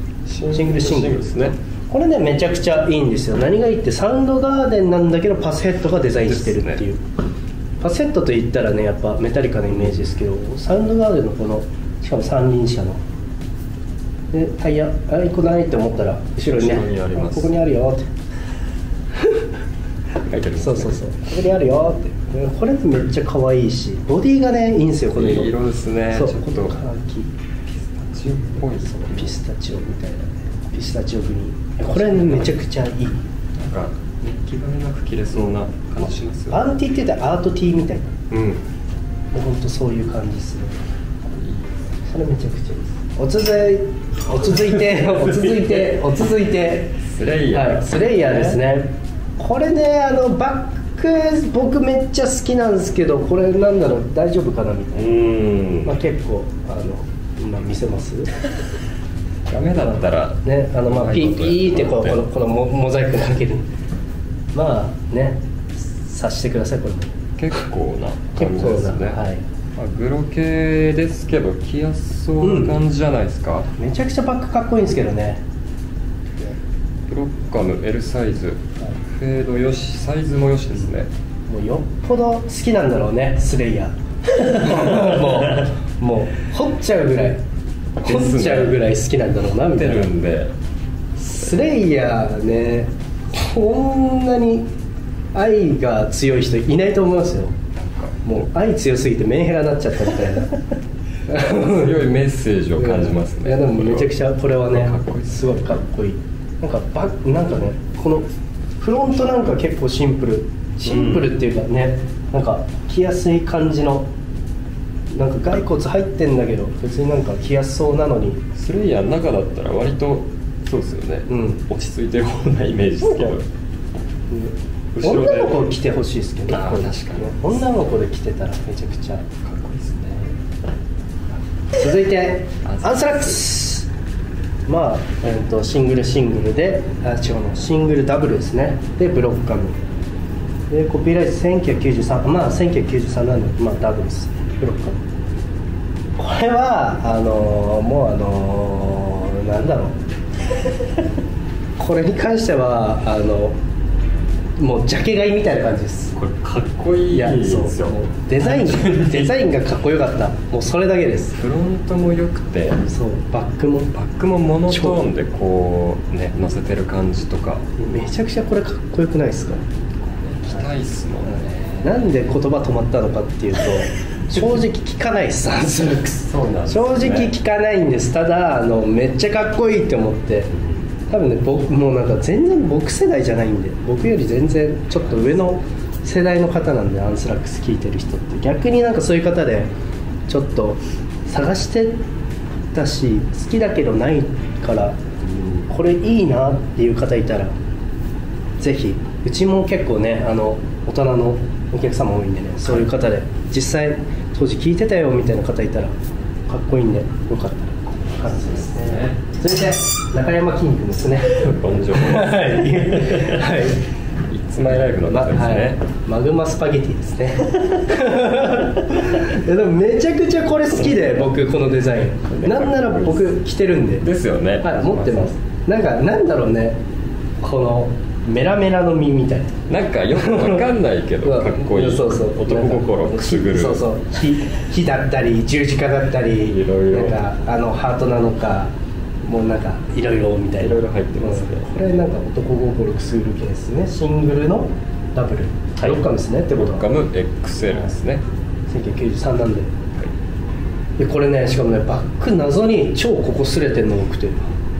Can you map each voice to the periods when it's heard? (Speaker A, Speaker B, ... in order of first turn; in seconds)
Speaker A: 0.2-1.6, 6.2-6.8, 16.5-17.6, 20.2-21.0, 25.1-26.8, 27.7-29.3, 31.9-32.6, 33.6-36.7, 38.3-38.6, 41.2-41.8, 47.0-48.6, 54.9-55.9, 59.5-62.2, 67.4-69.2, 69.8-73.7, 77.1-81.1, 84.7-85.1, 88.0-88.8, 89.7-90.5, 97.7-98.4, 101.3-104.1, 104.7-105.7, 110.9-111.3, 118.5-123.4, 125.0-125.7, 126.5-127.5, 129.4-130.4, 132.6-133.5, 156.1-159.4, 161.4-162.8, 163.9-167.6, 170.0-171.9, 176.2-177.3, 180.5-180.9, 195.2-195.7, 208.2-209.2, 211.3-213.7, 214.3-215.8, 217.6-218.4, 218.9-219.2, 220.9-221.4, 222.2-223.4, 224.0-225.3, 229.7-233.9, 236.4-237.3, 240.6-241.7, 246.6-248.2
Speaker B: 0.5-7.0, 7.8-13.0, 14.3-18.1, 20.6-25.5, 26.1-27.3, 28.7-33.2, 36.5-38.1, 39.3-40.8, 42.1-47.0, 47.5-55.0, 55.8-58.4, 60.4-63.6, 64.5-67.2, 68.4-69.4, 72.4-72.8, 73.8-75.4, 81.5-87.4, 88.0-90.1, 91.2-94.7, 95.3-97.6, 98.2-100.6, 101.3-102.1, 102.8-108.3, 108.8-114.1, 115.1-118.4, 121.3-121.6, 123.0-123.3, 124.3-129.3, 131.7-133.9, 134.7-139.8, 140.7-145.0, 146.2-150.0, 151.8-153.6, 154.6-156.2, 157.1-161.4, 162.8-163.9, 164.7-165.0, 167.8-169.6, 171.3-180.5, 181.1-189.7, 190.3-192.0, 192.7-195.0, 195.7-197.5, 198.6-205.9, 206.5-213.9, 214.6-224.1, 224.6-226.8, 227.4-230.7, 231.2-238.7, 239.2-246.8, 248.7-249.7, 251.0-254.5